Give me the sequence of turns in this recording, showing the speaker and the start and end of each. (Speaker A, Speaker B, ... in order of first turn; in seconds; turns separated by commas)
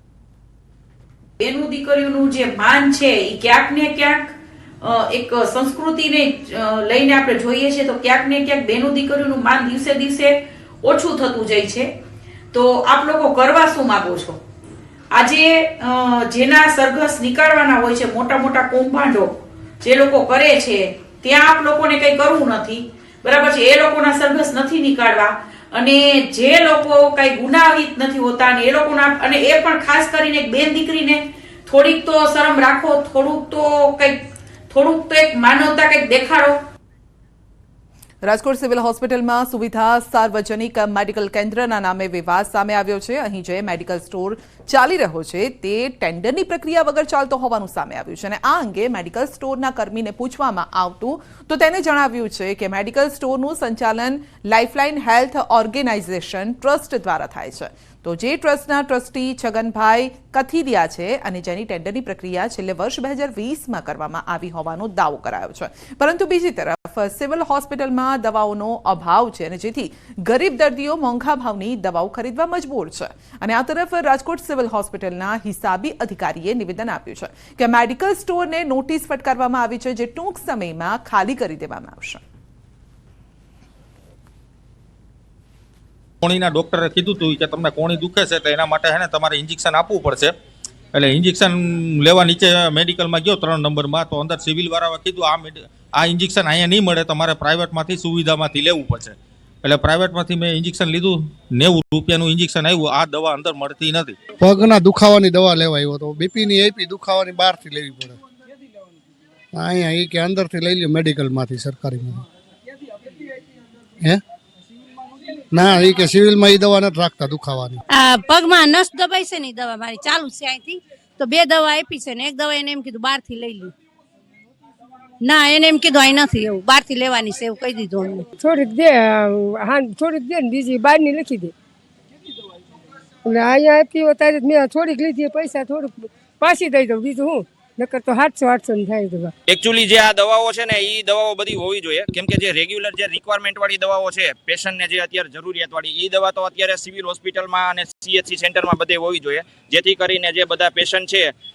Speaker A: 1.4-11.9, Speaker A: 12.5-14.4, Speaker A: 15.1-19.3, Speaker A: 19.8-34.2, Speaker A: 34.7-36.5, Speaker B: 38.2-82.2, Speaker C: 86.2-90.3, Speaker C: 90.9-104.2, Speaker D: 104.4-108.1, Speaker D: 109.6-112.0, Speaker D: 115.6-117.7, Speaker E: 117.9-123.7, Speaker E: 125.2-128.3, Speaker F: 128.3-131.5, Speaker F: 133.2-139.3, Speaker G: 139.5-151.3